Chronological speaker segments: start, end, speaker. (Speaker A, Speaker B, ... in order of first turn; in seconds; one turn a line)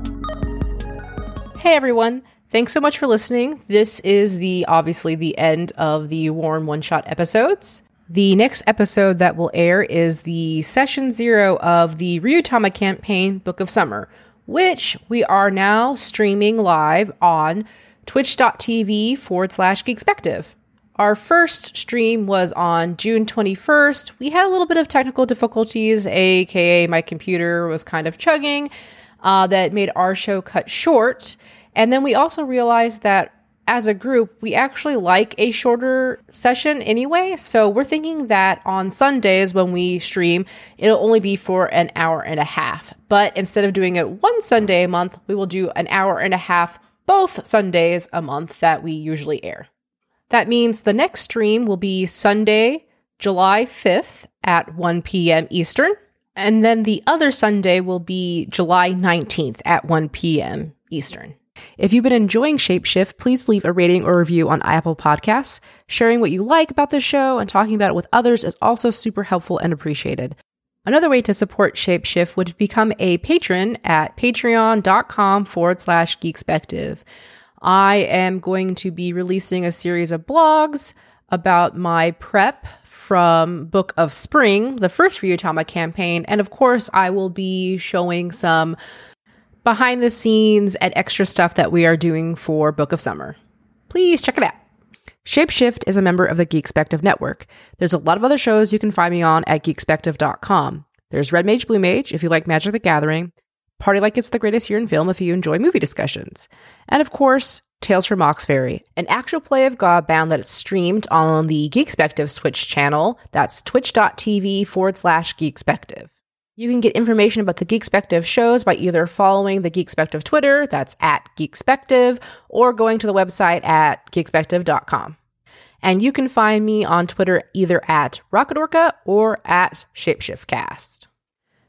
Speaker A: 1.6-28.7
Speaker A: 29.2-49.7
Speaker A: 50.3-77.0
Speaker A: 77.6-88.8
Speaker A: 89.7-93.4
Speaker A: 93.9-94.6
Speaker A: 95.2-125.2
Speaker A: 125.8-131.1